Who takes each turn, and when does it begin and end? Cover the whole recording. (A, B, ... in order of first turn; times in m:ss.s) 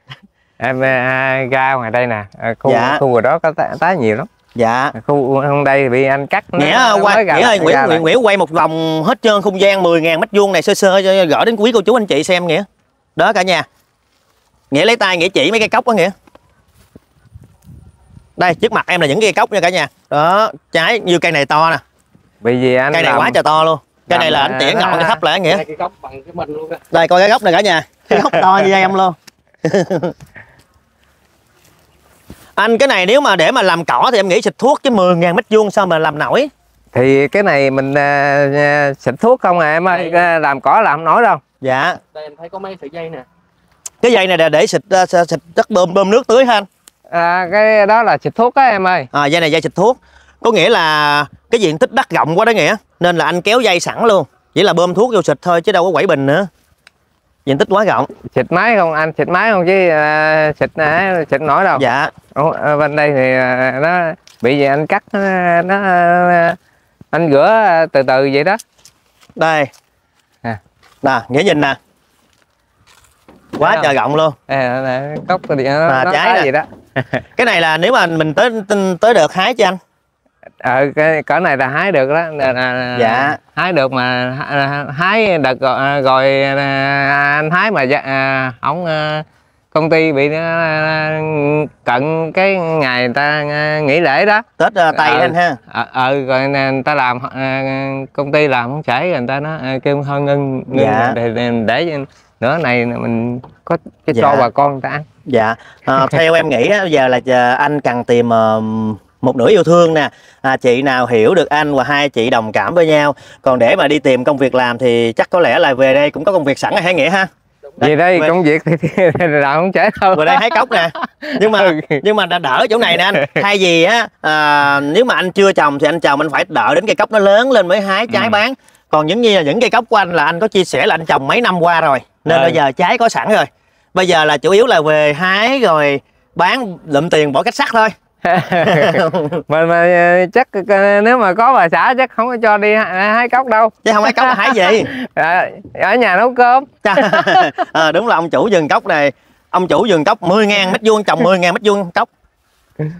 0:00.6-0:04.3 A
0:02.7-0:03.0 B
0:04.6-0:05.0 B
0:04.9-0:08.0 A
0:06.6-0:13.7 B
0:14.7-0:16.1 B
0:18.4-0:21.8 B
0:22.4-0:23.4 A
0:22.9-0:25.6 B
0:24.1-0:25.2 A
0:25.5-0:26.8 C
0:26.9-0:30.1 B
0:28.2-0:28.4 A
0:32.6-0:36.5 B
0:36.9-0:41.4 A
0:39.9-0:40.2 C
0:41.6-0:42.0 B
0:42.1-0:43.3 C
0:44.0-0:46.7 B
0:47.1-0:49.1 A
0:49.1-0:56.5 B
0:57.5-0:58.1 B
0:58.2-1:06.6 A
1:01.8-1:02.1 B
1:07.1-1:08.6 A
1:09.4-1:09.7 B
1:11.0-1:11.8 B
1:13.6-1:14.4 B
1:13.6-1:13.9 A
1:14.5-1:17.2 A
1:15.9-1:16.5 B
1:17.4-1:19.8 B
1:20.6-1:45.1 A
1:23.0-1:23.4 B
1:34.6-1:35.6 B
1:40.7-1:41.2 B
1:44.1-1:44.5 B
1:45.3-1:58.3 B
1:57.8-2:02.0 A
2:00.1-2:17.9 B
2:02.9-2:03.4 A
2:08.1-2:08.4 A
2:12.3-2:12.6 A
2:18.2-2:27.5 A
2:18.6-2:19.4 B
2:23.8-2:24.9 B
2:26.8-2:32.1 B